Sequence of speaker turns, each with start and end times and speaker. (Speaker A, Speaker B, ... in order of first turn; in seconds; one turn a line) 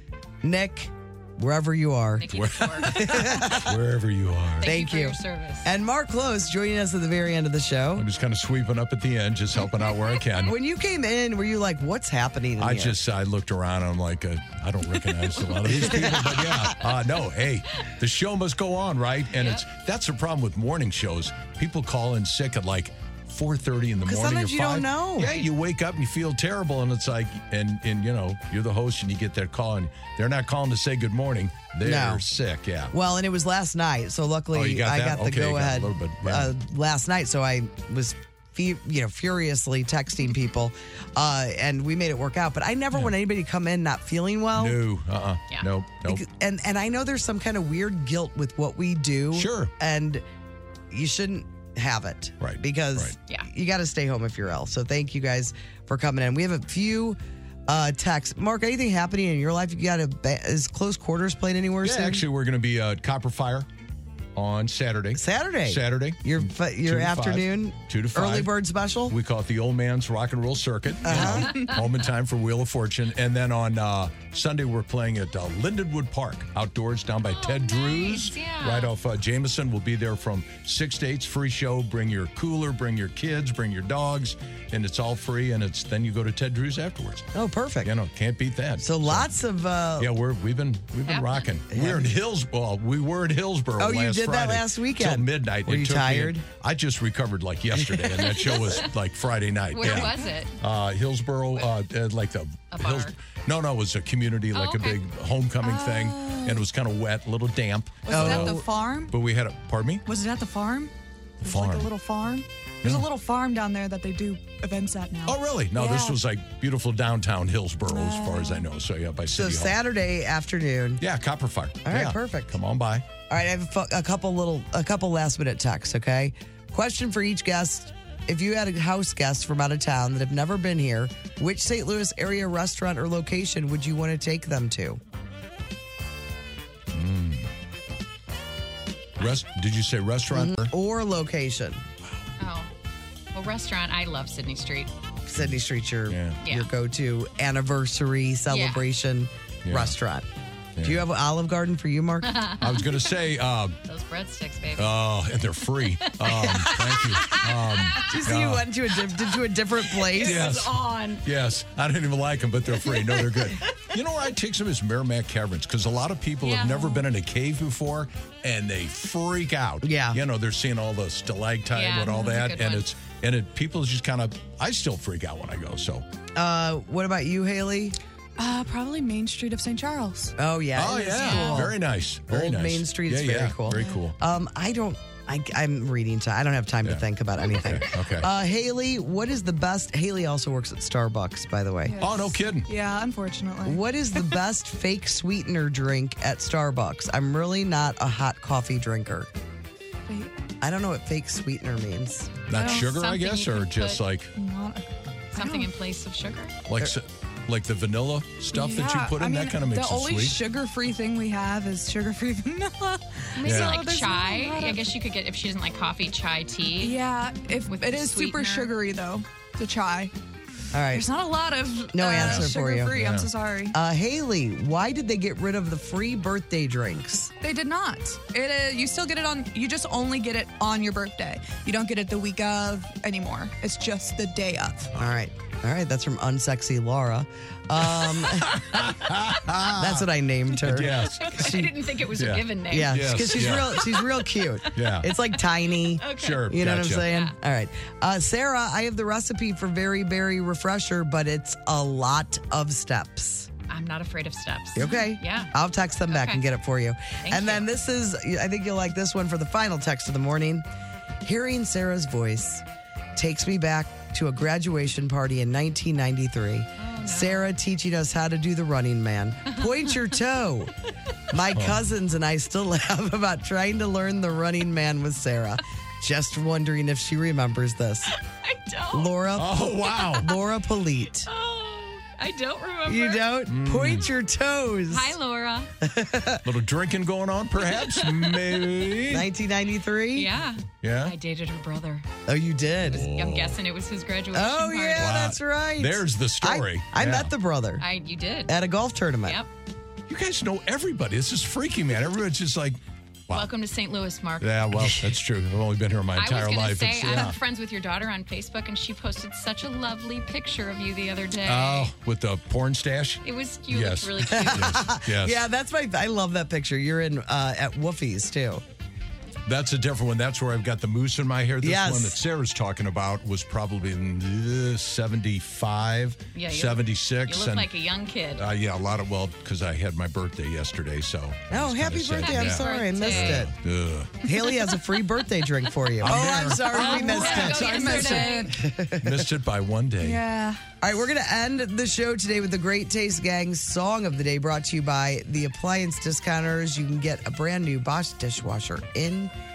Speaker A: 0.4-3.8
Speaker B: 2.2-3.3
Speaker C: 2.3-4.6
Speaker B: 4.6-5.7
Speaker A: 4.6-8.1
Speaker C: 8.0-10.5
Speaker B: 9.8-10.2
Speaker A: 10.5-13.0
Speaker C: 12.6-32.9
Speaker A: 15.7-16.6
Speaker B: 19.3-19.6
Speaker A: 24.0-25.4
Speaker A: 31.8-32.3
Speaker A: 32.9-44.8
Speaker C: 34.5-36.5
Speaker C: 44.5-46.2
Speaker A: 46.0-50.2
Speaker C: 49.3-49.7
Speaker A: 50.9-62.3
Speaker C: 52.4-53.2
Speaker B: 53.2-53.5
Speaker C: 61.8-63.7
Speaker C: 64.3-68.5
Speaker A: 65.2-69.2
Speaker C: 69.1-87.3
Speaker A: 71.0-71.5
Speaker B: 77.3-78.9
Speaker A: 87.3-87.9
Speaker C: 87.8-89.3
Speaker A: 88.8-90.1
Speaker C: 90.0-110.0
Speaker B: 91.1-91.5
Speaker A: 91.7-92.1
Speaker A: 93.8-96.5
Speaker A: 97.7-98.8
Speaker B: 98.6-98.9
Speaker B: 99.7-100.6
Speaker B: 102.7-103.1
Speaker B: 104.5-105.0
Speaker D: 105.6-106.7
Speaker D: 108.0-109.1
Speaker A: 108.1-108.6
Speaker D: 110.1-110.9
Speaker C: 111.4-111.9
Speaker D: 111.4-116.2
Speaker C: 115.3-119.8
Speaker D: 117.9-118.7
Speaker A: 119.3-121.0
Speaker C: 121.0-123.1
Speaker A: 121.8-122.6
Speaker A: 123.3-135.0
Speaker C: 136.9-137.5
Speaker C: 139.2-140.7
Speaker A: 140.3-141.8
Speaker B: 142.4-142.7
Speaker B: 143.3-144.9
Speaker A: 145.3-150.3
Speaker C: 145.4-146.4
Speaker B: 146.4-146.7
Speaker B: 148.5-148.9
Speaker C: 149.7-150.0
Speaker C: 150.8-151.0
Speaker A: 150.8-152.4
Speaker B: 152.2-153.1
Speaker C: 152.6-153.8
Speaker B: 153.8-155.0
Speaker C: 154.8-158.7
Speaker B: 155.6-158.3
Speaker A: 158.1-160.5
Speaker B: 159.2-161.3
Speaker C: 160.2-176.1
Speaker B: 162.7-163.9
Speaker B: 166.4-167.0
Speaker A: 169.8-170.2
Speaker B: 171.7-172.9
Speaker A: 176.3-178.0
Speaker D: 178.4-181.7
Speaker A: 180.4-192.0
Speaker C: 180.8-184.2
Speaker C: 187.6-188.3
Speaker D: 191.8-194.3
Speaker C: 192.0-192.7
Speaker A: 193.7-199.3
Speaker D: 200.1-200.3
Speaker A: 200.6-202.5
Speaker C: 202.5-204.3
Speaker B: 202.6-204.0
Speaker D: 202.6-202.9
Speaker D: 204.3-205.7
Speaker B: 205.3-206.6
Speaker C: 206.7-210.4
Speaker D: 208.5-214.9
Speaker B: 213.4-217.0
Speaker C: 213.4-213.8
Speaker D: 216.8-220.1
Speaker B: 217.7-218.7
Speaker A: 220.7-221.1
Speaker D: 220.9-223.8
Speaker A: 221.9-223.0
Speaker C: 222.2-223.3
Speaker A: 223.7-227.3
Speaker D: 227.4-234.9
Speaker A: 234.9-238.6
Speaker C: 237.9-241.4
Speaker A: 239.8-241.7
Speaker B: 241.1-244.8
Speaker C: 242.2-243.8
Speaker A: 242.7-253.5
Speaker C: 244.8-245.1
Speaker B: 246.0-247.3
Speaker C: 246.1-247.1
Speaker B: 253.7-255.5
Speaker A: 254.8-260.7
Speaker B: 256.1-256.4
Speaker B: 257.2-257.7
Speaker A: 261.2-262.6
Speaker A: 263.2-270.7
Speaker B: 266.8-267.5
Speaker B: 269.5-269.9
Speaker A: 271.3-278.1
Speaker C: 271.5-271.8
Speaker B: 278.2-279.3
Speaker A: 278.9-281.3
Speaker C: 279.4-280.3
Speaker B: 279.9-280.4
Speaker B: 281.3-283.4
Speaker A: 282.9-285.2
Speaker C: 283.5-284.1
Speaker B: 284.9-285.7
Speaker A: 285.8-286.5
Speaker C: 286.4-289.3
Speaker B: 287.6-288.9
Speaker A: 289.1-290.3
Speaker B: 290.1-292.1
Speaker C: 290.8-291.1
Speaker A: 292.3-293.1
Speaker C: 292.9-293.6
Speaker B: 293.1-295.2
Speaker A: 294.3-297.8
Speaker C: 295.0-297.3
Speaker B: 297.8-298.6
Speaker A: 298.5-299.4
Speaker C: 300.1-303.5
Speaker B: 303.3-305.1
Speaker C: 304.4-307.4
Speaker B: 306.1-311.9
Speaker C: 311.4-315.4
Speaker B: 313.2-314.8
Speaker A: 314.2-318.6
Speaker C: 319.5-327.7
Speaker A: 321.6-322.2
Speaker B: 326.3-328.5
Speaker C: 328.4-334.2
Speaker A: 331.5-333.5
Speaker B: 332.2-333.5
Speaker D: 332.8-333.1
Speaker A: 334.2-339.3
Speaker C: 336.0-338.2
Speaker D: 336.5-338.6
Speaker B: 336.8-338.6
Speaker C: 339.0-340.2
Speaker D: 340.0-340.6
Speaker A: 340.8-349.3